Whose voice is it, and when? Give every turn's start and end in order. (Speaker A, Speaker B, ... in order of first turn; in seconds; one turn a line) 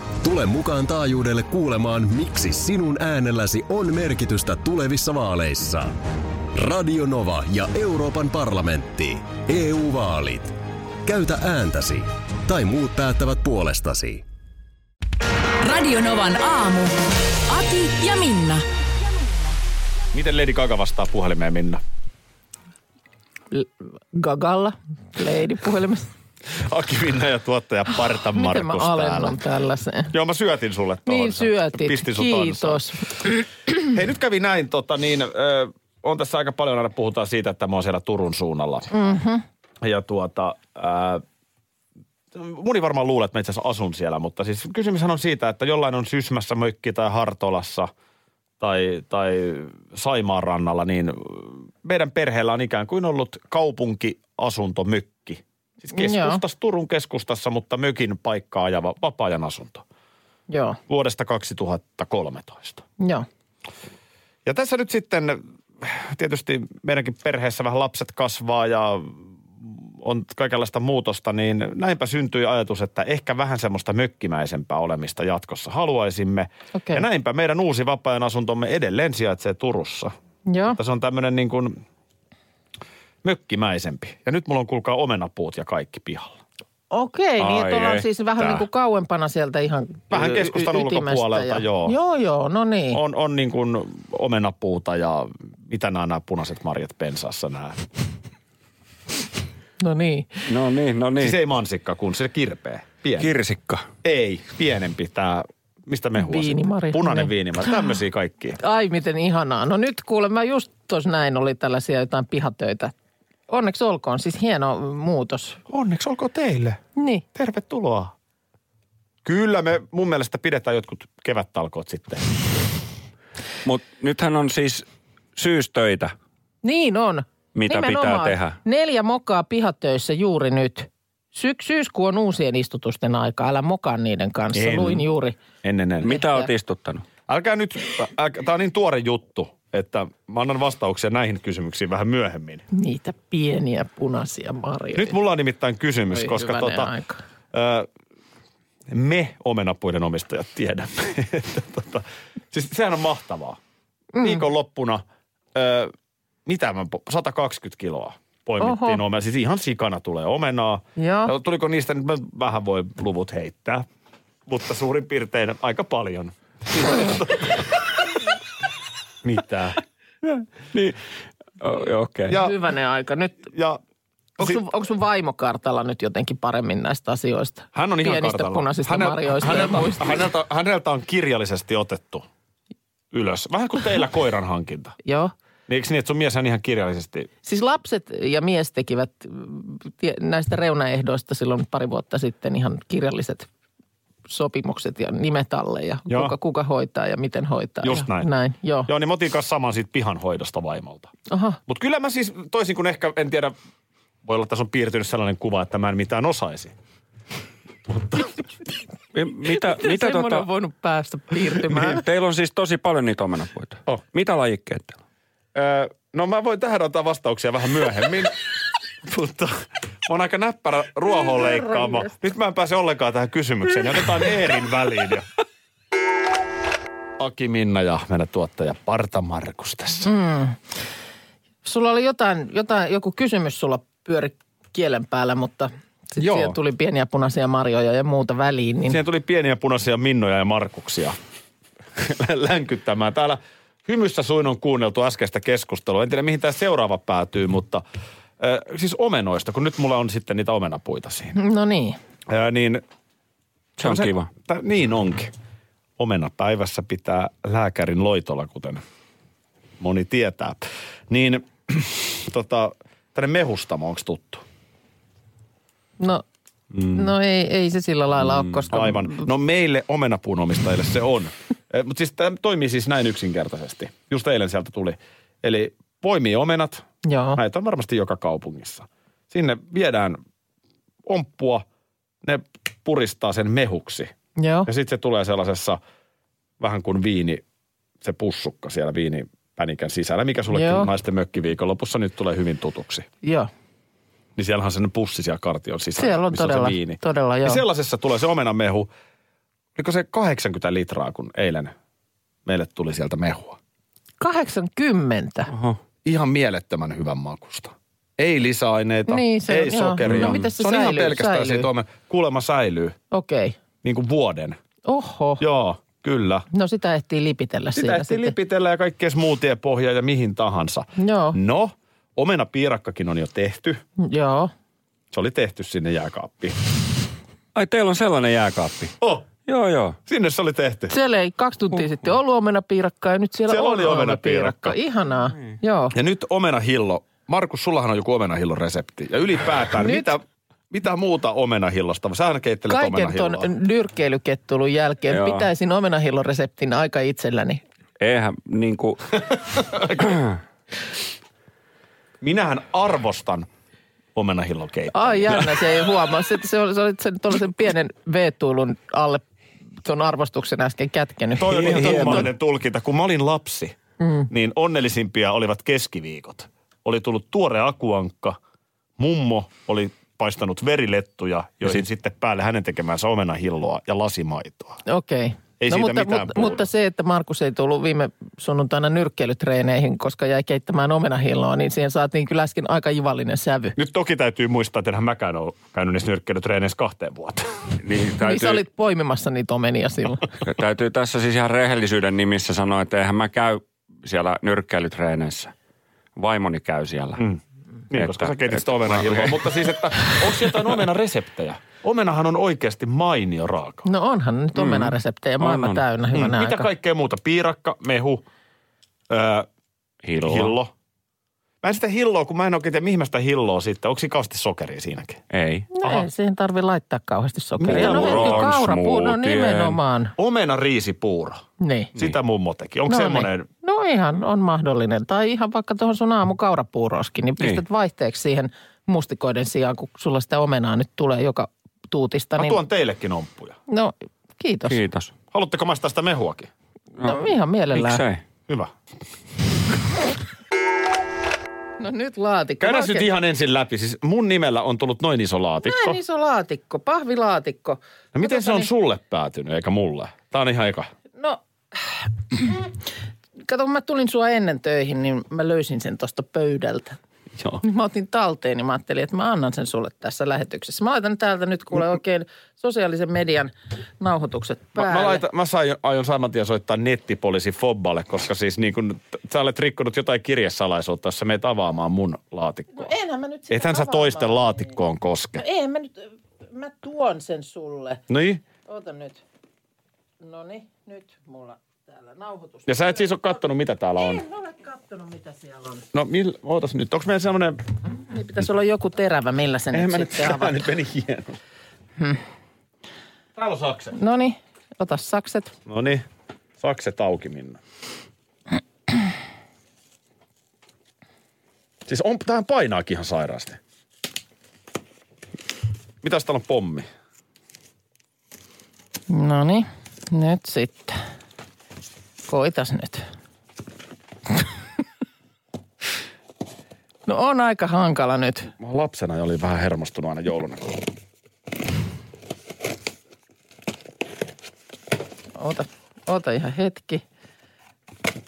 Speaker A: 0.2-6.0
Speaker A: 6.5-14.2
Speaker B: 15.6-18.6
Speaker C: 20.1-21.8
Speaker D: 23.5-26.1
Speaker C: 26.5-29.4
Speaker D: 28.2-30.1
Speaker C: 30.1-32.8
Speaker D: 31.1-33.4
Speaker C: 33.7-39.0
Speaker D: 38.9-39.4
Speaker C: 39.8-41.2
Speaker C: 42.3-47.9
Speaker C: 48.6-59.8
Speaker D: 55.9-56.4
Speaker D: 60.5-60.8
Speaker C: 60.9-62.8
Speaker D: 63.0-63.2
Speaker C: 64.4-80.1
Speaker D: 76.7-77.0
Speaker D: 80.5-80.8
Speaker C: 80.7-81.8
Speaker C: 83.2-86.4
Speaker D: 86.9-93.0
Speaker E: 87.4-88.1
Speaker C: 90.1-92.0
Speaker C: 92.9-97.8
Speaker D: 99.8-100.4
Speaker E: 100.5-101.4
Speaker C: 101.2-103.3
Speaker E: 103.2-103.8
Speaker C: 104.0-108.6
Speaker D: 106.2-107.3
Speaker D: 108.6-112.9
Speaker D: 113.5-115.6
Speaker C: 115.7-116.8
Speaker D: 117.0-117.2
Speaker C: 117.3-118.1
Speaker C: 119.2-122.3
Speaker E: 123.6-126.1
Speaker D: 126.6-135.3
Speaker E: 127.5-128.6
Speaker C: 134.5-135.1
Speaker C: 135.6-136.2
Speaker E: 136.0-137.1
Speaker D: 136.1-136.5
Speaker C: 137.3-142.7
Speaker D: 142.7-145.2
Speaker C: 144.9-146.9
Speaker D: 146.1-147.2
Speaker C: 147.5-147.9
Speaker C: 148.9-153.6
Speaker D: 154.1-154.4
Speaker C: 154.2-155.0
Speaker C: 155.5-155.9
Speaker C: 156.4-163.8
Speaker D: 158.6-159.0
Speaker D: 161.0-161.3
Speaker C: 164.5-167.6
Speaker C: 169.2-169.8
Speaker E: 170.2-171.0
Speaker E: 171.6-172.3
Speaker C: 172.3-172.5
Speaker D: 172.3-173.5
Speaker C: 173.5-173.8
Speaker D: 174.4-180.1
Speaker C: 177.7-182.3
Speaker C: 183.1-184.9
Speaker D: 185.0-185.3
Speaker C: 185.7-187.3
Speaker D: 187.4-193.5
Speaker D: 194.3-198.9
Speaker C: 196.1-196.3
Speaker C: 197.8-198.3
Speaker C: 198.8-201.1
Speaker D: 201.3-201.6
Speaker C: 201.7-203.5
Speaker C: 204.2-206.7
Speaker E: 209.1-210.5
Speaker D: 209.5-212.0
Speaker E: 211.7-215.0
Speaker C: 215.5-218.3
Speaker C: 219.0-225.3
Speaker D: 221.2-222.1
Speaker C: 227.2-230.1
Speaker D: 230.0-230.6
Speaker D: 231.6-239.0
Speaker C: 236.2-236.6
Speaker C: 238.9-241.2
Speaker C: 242.0-247.8
Speaker C: 248.4-251.3
Speaker D: 251.3-252.0
Speaker C: 252.3-252.8
Speaker E: 253.8-254.3
Speaker C: 253.8-255.3
Speaker C: 256.0-258.8
Speaker C: 259.8-264.4
Speaker D: 266.9-269.2
Speaker C: 268.7-280.2
Speaker D: 277.0-277.4
Speaker C: 281.1-281.6
Speaker C: 282.2-284.1
Speaker D: 284.4-284.7
Speaker C: 284.6-285.8
Speaker C: 286.6-287.4
Speaker C: 288.0-293.1
Speaker D: 290.5-290.9
Speaker D: 293.2-293.5
Speaker C: 294.4-298.9
Speaker D: 296.0-297.6
Speaker C: 299.8-301.7
Speaker C: 302.4-303.6
Speaker D: 304.2-305.5
Speaker E: 305.5-305.8
Speaker C: 306.0-313.0
Speaker D: 309.1-311.7
Speaker E: 310.1-310.5
Speaker D: 313.1-313.6
Speaker C: 313.8-314.6
Speaker D: 314.9-315.4
Speaker C: 315.4-316.4
Speaker D: 316.5-318.3
Speaker C: 317.7-323.8
Speaker D: 321.0-321.4
Speaker D: 324.0-324.5
Speaker C: 325.1-326.6
Speaker E: 327.5-328.9
Speaker C: 329.0-329.3
Speaker E: 329.4-330.0
Speaker C: 330.1-330.9
Speaker D: 330.9-335.9
Speaker C: 333.5-334.8
Speaker C: 335.9-343.5
Speaker D: 339.8-340.1
Speaker D: 342.7-347.6
Speaker E: 345.1-345.5
Speaker E: 348.0-349.2
Speaker C: 349.5-350.2
Speaker E: 350.0-350.3
Speaker C: 352.2-353.5
Speaker C: 354.1-355.7
Speaker D: 354.9-359.2
Speaker D: 359.8-362.3
Speaker C: 361.4-363.8
Speaker E: 361.5-362.3
Speaker D: 364.0-364.3
Speaker C: 364.3-368.4
Speaker C: 369.0-374.8
Speaker D: 374.9-383.7
Speaker C: 375.6-376.6
Speaker C: 383.8-387.7
Speaker E: 387.8-388.6
Speaker D: 388.2-390.3
Speaker E: 390.4-395.5
Speaker E: 396.1-397.2
Speaker C: 397.1-403.9
Speaker E: 397.9-399.4
Speaker D: 403.8-406.7
Speaker E: 404.6-405.8
Speaker C: 406.1-408.2
Speaker C: 409.1-409.5
Speaker E: 410.0-410.6
Speaker C: 410.2-410.7
Speaker C: 411.6-415.2
Speaker E: 415.3-415.7
Speaker D: 415.7-420.1
Speaker C: 417.6-418.6
Speaker E: 417.6-419.8
Speaker C: 420.2-421.4
Speaker D: 421.6-421.9
Speaker C: 421.9-423.5
Speaker D: 422.9-432.6
Speaker C: 432.4-433.6
Speaker D: 433.7-434.8
Speaker E: 434.7-435.1
Speaker C: 435.3-436.5
Speaker D: 437.0-438.0
Speaker E: 437.7-438.2
Speaker D: 441.8-443.1
Speaker C: 442.6-446.0
Speaker D: 445.6-448.7
Speaker C: 448.1-450.9
Speaker D: 451.2-452.6
Speaker D: 453.4-457.0
Speaker D: 457.6-465.2
Speaker C: 464.8-472.9
Speaker D: 472.7-474.7
Speaker C: 473.5-475.4
Speaker D: 475.4-478.0
Speaker C: 478.1-478.4
Speaker D: 478.6-479.2
Speaker D: 480.2-483.4
Speaker C: 482.6-484.2
Speaker D: 484.0-485.8
Speaker C: 485.9-487.6
Speaker D: 488.1-490.6
Speaker C: 489.7-491.4
Speaker C: 493.4-493.9
Speaker D: 493.9-495.5
Speaker C: 495.6-496.0
Speaker C: 496.6-497.6
Speaker C: 501.9-503.6
Speaker C: 506.0-506.9
Speaker D: 509.1-511.0
Speaker D: 512.2-513.0
Speaker D: 517.1-518.5
Speaker C: 518.6-520.8
Speaker D: 525.3-527.0